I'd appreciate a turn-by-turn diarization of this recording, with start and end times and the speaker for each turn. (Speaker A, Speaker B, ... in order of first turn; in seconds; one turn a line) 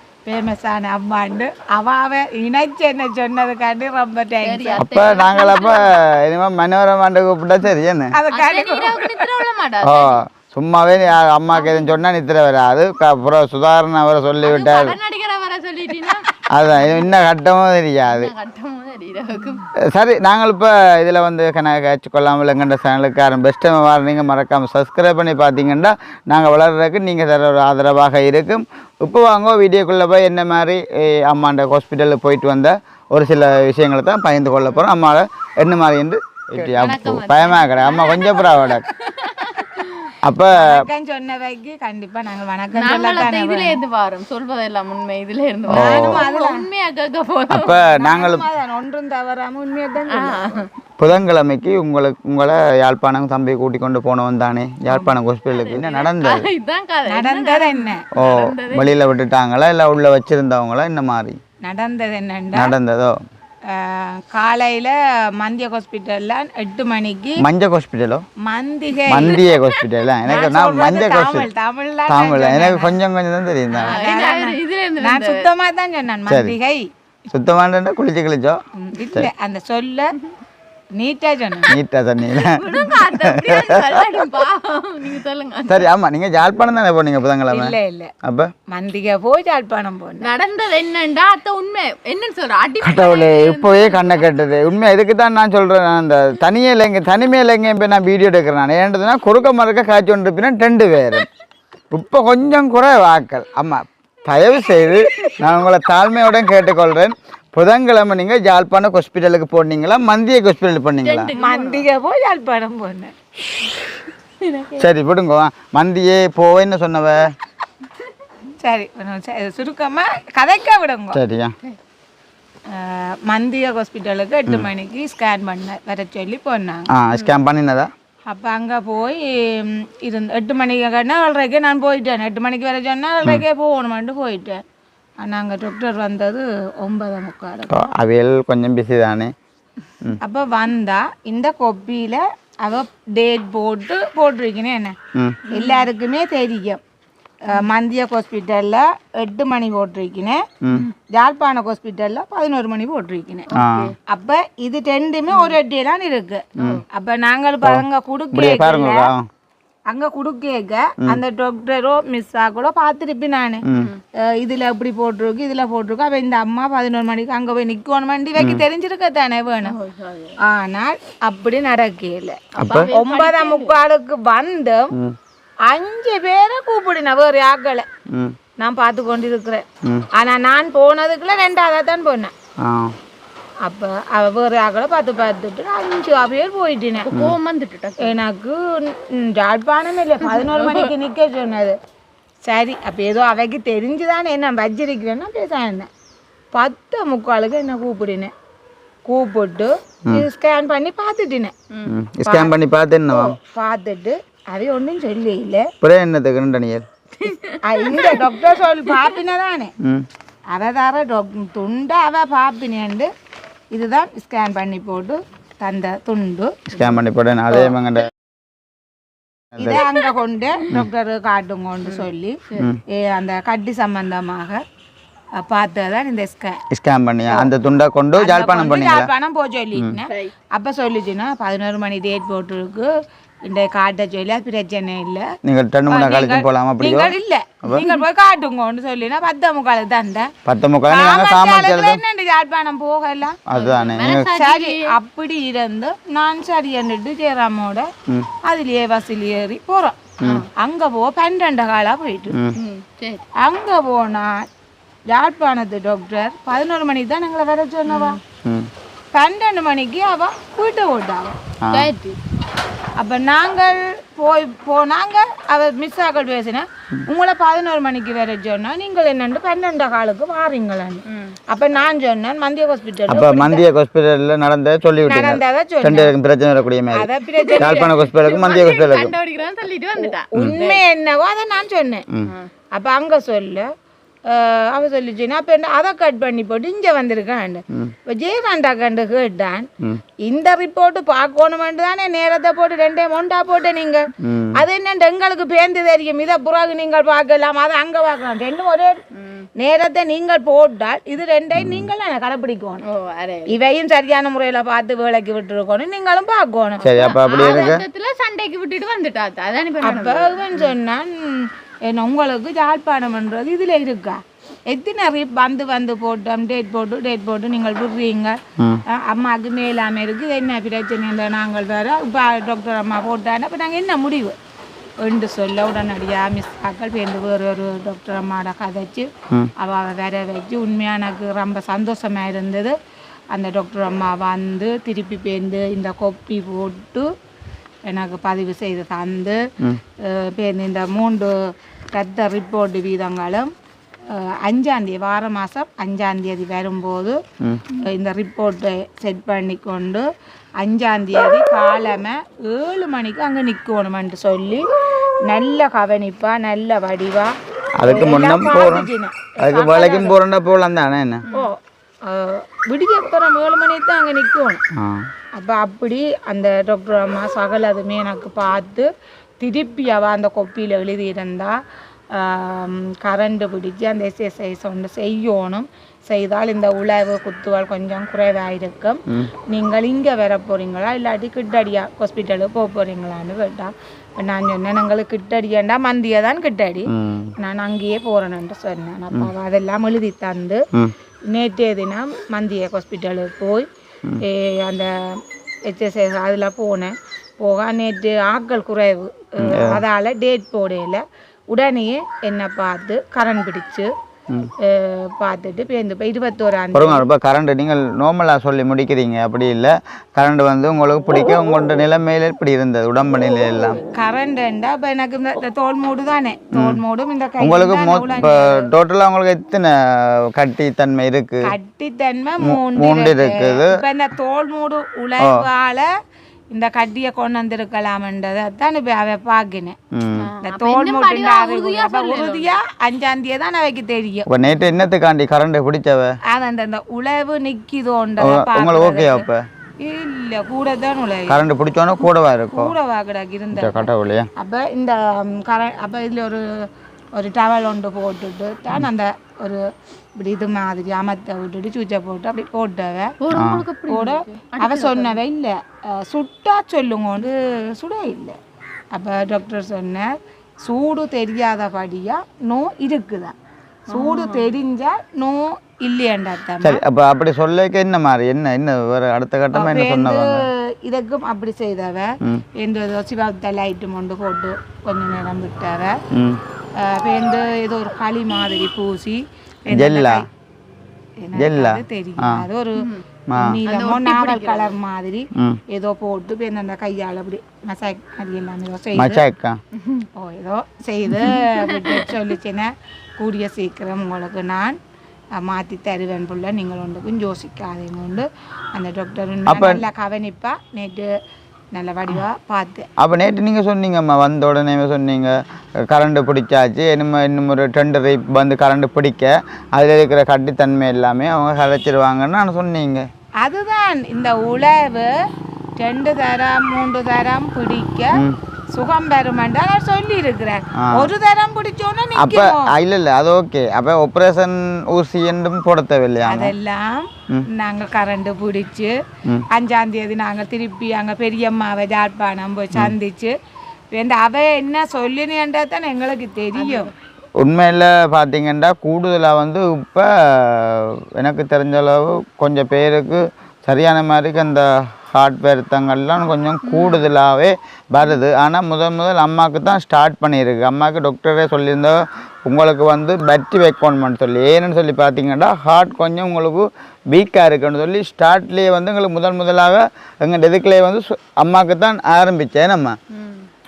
Speaker A: 0.3-4.9
Speaker B: 4.4-6.0
Speaker C: 4.8-8.2
Speaker A: 8.1-9.3
Speaker B: 8.3-10.2
Speaker C: 9.8-15.0
Speaker B: 11.5-12.0
Speaker B: 14.4-16.3
Speaker C: 16.5-18.3
Speaker B: 18.1-19.7
Speaker C: 19.9-38.9
Speaker B: 36.6-40.1
Speaker C: 40.2-40.9
Speaker A: 40.5-43.8
Speaker B: 42.7-47.8
Speaker A: 45.7-46.7
Speaker C: 45.7-46.2
Speaker C: 47.5-48.5
Speaker A: 47.6-50.5
Speaker B: 50.1-50.7
Speaker C: 51.0-56.5
Speaker A: 54.9-55.2
Speaker B: 55.5-59.0
Speaker A: 57.1-58.1
Speaker C: 58.1-61.4
Speaker A: 61.6-62.8
Speaker C: 62.5-63.2
Speaker A: 63.7-67.5
Speaker C: 67.4-68.2
Speaker A: 68.4-69.5
Speaker C: 69.1-71.5
Speaker A: 70.2-73.0
Speaker C: 72.1-74.0
Speaker A: 73.7-76.9
Speaker B: 73.8-75.5
Speaker C: 76.3-76.5
Speaker C: 77.3-78.6
Speaker A: 78.8-80.1
Speaker A: 81.0-81.8
Speaker C: 81.7-84.1
Speaker B: 82.2-85.9
Speaker C: 85.7-88.5
Speaker A: 87.5-88.1
Speaker A: 88.7-90.3
Speaker B: 90.2-94.3
Speaker C: 92.8-101.3
Speaker C: 101.9-111.3
Speaker B: 104.8-105.5
Speaker B: 111.0-111.9
Speaker A: 111.3-113.1
Speaker B: 114.4-114.9
Speaker C: 114.8-117.3
Speaker A: 118.6-121.2
Speaker C: 121.1-121.5
Speaker A: 122.7-126.9
Speaker C: 127.0-127.9
Speaker B: 127.1-127.4
Speaker A: 128.3-134.6
Speaker A: 135.2-137.9
Speaker C: 137.7-139.3
Speaker A: 140.2-145.0
Speaker C: 145.2-145.4
Speaker B: 145.5-145.9
Speaker A: 145.5-146.8
Speaker A: 147.4-150.4
Speaker A: 151.1-153.5
Speaker B: 153.5-153.9
Speaker C: 153.6-153.9
Speaker A: 154.1-159.1
Speaker B: 155.3-155.6
Speaker B: 156.6-156.8
Speaker C: 156.6-156.8
Speaker C: 157.6-159.3
Speaker A: 159.9-163.6
Speaker B: 163.8-164.0
Speaker A: 164.3-169.7
Speaker C: 168.4-168.6
Speaker B: 169.6-170.4
Speaker A: 170.5-174.9
Speaker B: 172.6-173.8
Speaker C: 172.6-172.9
Speaker A: 175.7-177.9
Speaker A: 178.6-182.3
Speaker C: 182.6-182.9
Speaker A: 183.7-187.1
Speaker B: 187.0-188.2
Speaker A: 188.0-191.8
Speaker B: 190.2-190.9
Speaker A: 192.4-195.9
Speaker A: 196.5-198.3
Speaker A: 199.1-201.5
Speaker C: 201.9-203.4
Speaker A: 202.3-202.5
Speaker A: 203.1-205.7
Speaker C: 205.8-206.9
Speaker B: 207.2-208.3
Speaker A: 207.6-209.7
Speaker A: 210.5-213.1
Speaker A: 213.7-217.0
Speaker C: 216.7-218.1
Speaker C: 219.6-219.8
Speaker A: 219.6-224.6
Speaker B: 221.9-222.7
Speaker A: 225.4-226.6
Speaker C: 226.7-229.1
Speaker A: 228.2-232.9
Speaker A: 233.4-235.3
Speaker C: 235.4-237.8
Speaker A: 235.9-240.3
Speaker C: 240.4-242.0
Speaker A: 240.9-243.4
Speaker C: 243.5-244.3
Speaker B: 243.5-244.9
Speaker A: 244.3-247.9
Speaker A: 248.4-250.0
Speaker A: 250.6-252.4
Speaker B: 252.6-253.2
Speaker A: 253.4-254.4
Speaker A: 255.1-258.2
Speaker B: 257.9-258.2
Speaker C: 258.4-258.7
Speaker A: 259.1-261.4
Speaker C: 261.6-261.9
Speaker B: 261.7-262.2
Speaker A: 263.0-273.7
Speaker C: 273.1-279.2
Speaker A: 275.1-276.1
Speaker A: 276.9-277.9
Speaker B: 277.4-280.8
Speaker A: 280.0-282.1
Speaker C: 280.4-280.6
Speaker A: 282.7-283.7
Speaker A: 284.3-289.7
Speaker A: 290.2-299.0
Speaker C: 294.2-294.6
Speaker A: 299.6-302.8
Speaker C: 301.6-301.9
Speaker B: 302.9-303.5
Speaker A: 303.5-307.8
Speaker B: 306.8-310.7
Speaker C: 306.8-307.8
Speaker A: 309.8-314.2
Speaker A: 314.7-318.4
Speaker A: 318.9-324.4
Speaker A: 325.0-332.8
Speaker A: 333.3-337.1
Speaker A: 337.9-339.4
Speaker A: 340.0-341.3
Speaker A: 341.9-343.5
Speaker A: 344.1-347.2
Speaker A: 347.7-350.1
Speaker A: 350.6-354.6
Speaker A: 355.2-360.2
Speaker C: 357.8-358.9
Speaker C: 359.4-361.3
Speaker B: 361.3-361.5
Speaker A: 361.3-364.6
Speaker C: 364.8-365.1
Speaker A: 365.4-368.9
Speaker A: 369.4-371.6
Speaker A: 372.1-390.6
Speaker C: 386.9-387.3
Speaker A: 391.3-393.7
Speaker A: 394.2-394.9
Speaker A: 395.7-403.9
Speaker C: 399.4-399.8
Speaker A: 404.6-407.1
Speaker C: 406.7-413.8
Speaker A: 413.9-418.7
Speaker C: 416.5-416.8
Speaker C: 417.4-421.5
Speaker A: 421.4-425.9
Speaker C: 422.4-423.8
Speaker C: 425.2-425.4
Speaker A: 426.5-429.8
Speaker C: 429.9-430.3
Speaker B: 430.2-432.6
Speaker A: 430.4-434.3
Speaker C: 434.3-436.2
Speaker A: 436.3-439.3
Speaker C: 438.2-439.4
Speaker A: 439.8-441.4
Speaker C: 441.3-442.8
Speaker A: 442.5-446.5
Speaker C: 443.5-444.3
Speaker A: 447.1-449.6
Speaker A: 450.2-453.2
Speaker B: 453.2-455.2
Speaker C: 453.3-453.6
Speaker A: 453.9-458.4
Speaker A: 458.9-460.1
Speaker A: 460.6-463.3
Speaker A: 463.9-466.8
Speaker B: 463.9-464.5
Speaker C: 466.6-470.5
Speaker A: 469.5-476.0
Speaker C: 476.1-476.4
Speaker A: 476.8-480.3
Speaker C: 479.7-480.2
Speaker A: 481.2-489.2
Speaker C: 481.4-482.4
Speaker B: 482.8-483.0
Speaker C: 483.3-483.6
Speaker B: 483.7-484.7
Speaker C: 489.0-489.6
Speaker B: 489.8-490.1
Speaker A: 490.2-494.8
Speaker B: 491.4-492.1
Speaker A: 495.4-501.1
Speaker C: 499.5-499.8
Speaker A: 501.7-502.9
Speaker C: 503.0-505.4
Speaker C: 505.9-513.1
Speaker A: 513.4-515.1
Speaker A: 515.8-518.2
Speaker A: 518.7-522.7
Speaker C: 522.2-526.5
Speaker A: 526.3-528.9
Speaker A: 529.5-533.3
Speaker A: 533.9-536.9
Speaker B: 536.6-536.9
Speaker C: 537.4-563.0
Speaker B: 546.6-547.1
Speaker B: 563.2-563.5